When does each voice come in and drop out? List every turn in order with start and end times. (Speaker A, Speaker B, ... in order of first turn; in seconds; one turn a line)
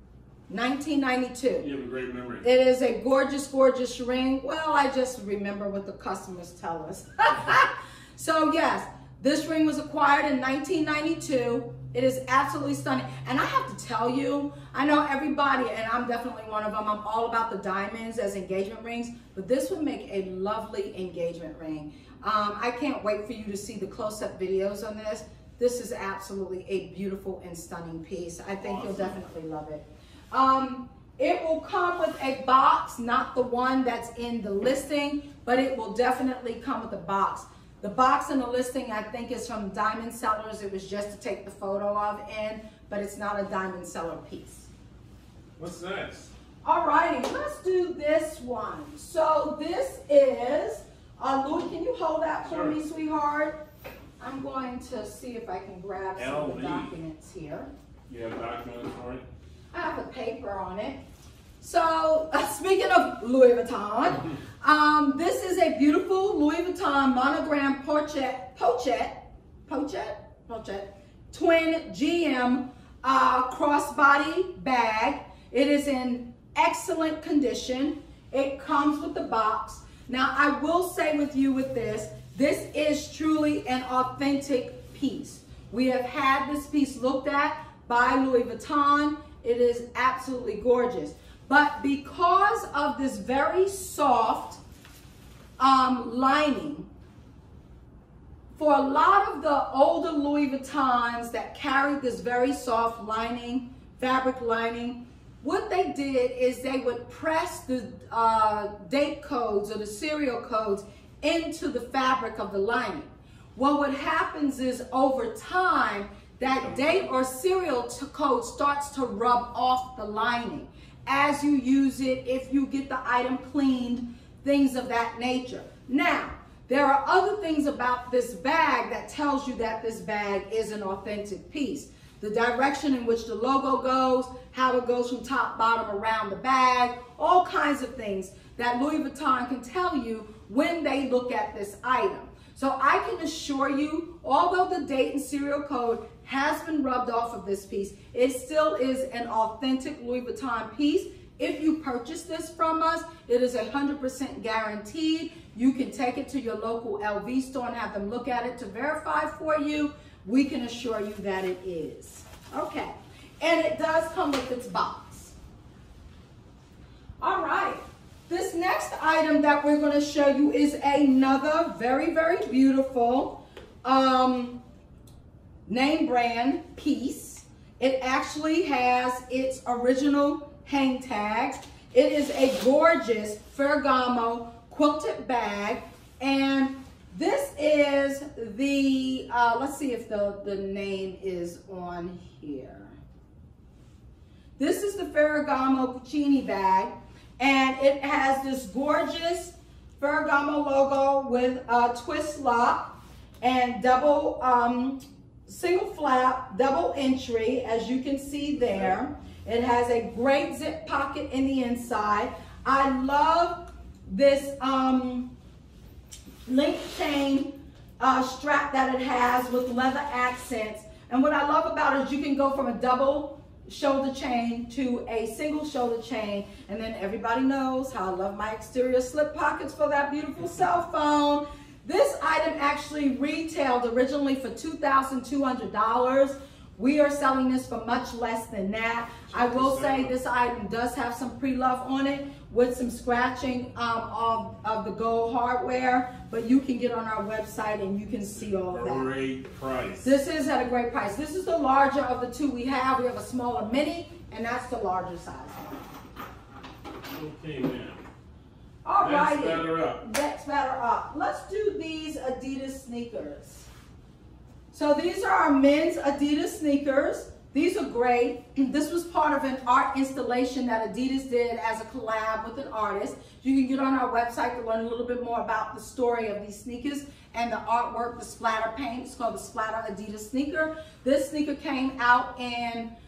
Speaker A: 0.5-1.7
Speaker B: 1.6-2.5
Speaker A: 2.4-44.7
Speaker B: 28.6-29.2
Speaker B: 45.6-46.3
Speaker A: 46.6-53.6
Speaker B: 52.5-52.8
Speaker A: 54.2-57.7
Speaker B: 56.2-57.0
Speaker B: 58.1-59.2
Speaker A: 59.7-61.0
Speaker A: 61.6-94.6
Speaker A: 95.6-96.9
Speaker A: 98.5-165.3
Speaker B: 116.5-117.1
Speaker A: 167.2-174.6
Speaker A: 175.7-192.9
Speaker A: 194.6-215.3
Speaker B: 208.6-209.0
Speaker A: 216.5-249.1
Speaker B: 239.3-240.1
Speaker B: 248.3-250.1
Speaker A: 250.0-255.7
Speaker B: 257.0-258.0
Speaker A: 258.8-263.7
Speaker B: 259.0-260.0
Speaker A: 264.7-282.9